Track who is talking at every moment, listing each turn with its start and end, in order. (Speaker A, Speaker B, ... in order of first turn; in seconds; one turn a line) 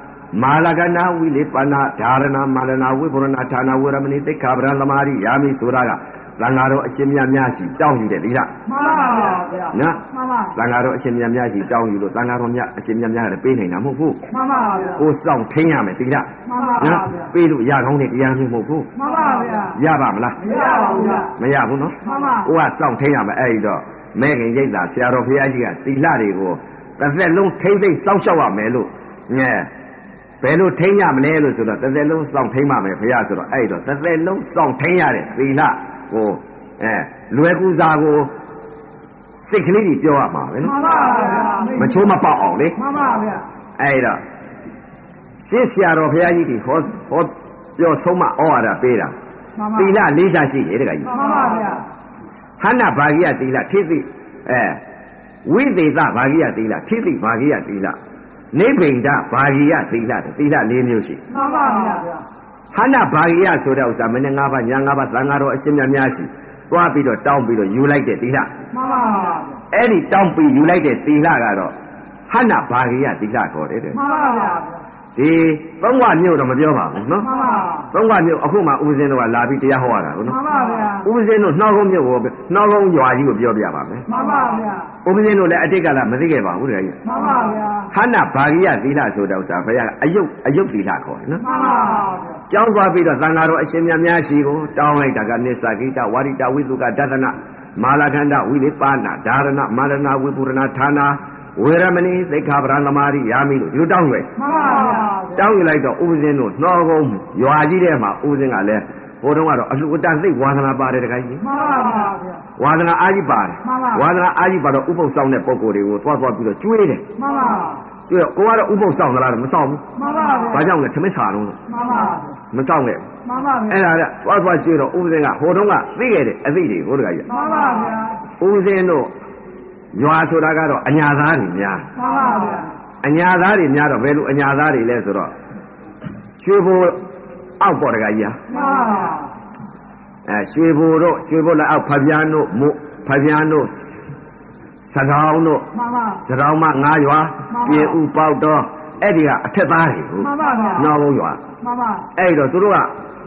Speaker A: 0.3-8.5
Speaker B: 8.7-10.5
Speaker A: 9.7-10.0
Speaker A: 10.5-14.2
Speaker B: 14.3-15.0
Speaker A: 14.9-18.9
Speaker B: 16.4-17.1
Speaker B: 18.9-19.8
Speaker A: 19.7-20.5
Speaker B: 20.4-21.3
Speaker A: 21.3-29.7
Speaker B: 22.0-22.5
Speaker A: 30.4-38.3
Speaker A: 39.5-40.8
Speaker B: 40.6-42.0
Speaker A: 41.7-42.8
Speaker B: 42.8-43.4
Speaker A: 43.8-44.2
Speaker A: 45.4-49.1
Speaker B: 49.6-49.9
Speaker A: 49.7-51.1
Speaker B: 51.0-51.8
Speaker A: 52.6-54.8
Speaker A: 55.4-58.0
Speaker A: 58.5-61.2
Speaker B: 61.3-62.2
Speaker A: 62.7-68.5
Speaker B: 68.7-69.5
Speaker A: 69.7-71.7
Speaker A: 72.3-74.0
Speaker B: 73.9-74.8
Speaker A: 75.2-77.3
Speaker B: 77.2-77.8
Speaker A: 77.9-80.4
Speaker B: 80.3-81.0
Speaker A: 81.0-84.1
Speaker B: 84.1-84.9
Speaker A: 85.0-87.0
Speaker B: 87.0-87.9
Speaker A: 87.9-91.5
Speaker B: 91.4-92.2
Speaker A: 92.5-104.3
Speaker B: 104.4-105.1
Speaker A: 105.3-111.4
Speaker B: 111.4-112.2
Speaker A: 112.6-117.0
Speaker B: 113.7-114.0
Speaker B: 117.2-117.8
Speaker A: 118.1-119.8
Speaker B: 119.9-120.6
Speaker A: 120.5-121.6
Speaker B: 121.7-122.3
Speaker A: 122.5-123.0
Speaker B: 123.2-123.7
Speaker A: 123.7-127.3
Speaker B: 127.3-128.1
Speaker A: 128.4-129.1
Speaker A: 129.9-131.8
Speaker B: 131.9-132.7
Speaker A: 133.0-135.3
Speaker A: 136.4-137.0
Speaker A: 137.6-138.4
Speaker B: 138.5-139.3
Speaker A: 140.3-144.0
Speaker A: 144.9-145.7
Speaker B: 145.7-146.2
Speaker A: 146.2-151.4
Speaker B: 147.5-147.9
Speaker B: 150.2-150.9
Speaker B: 151.6-152.0
Speaker A: 152.2-152.9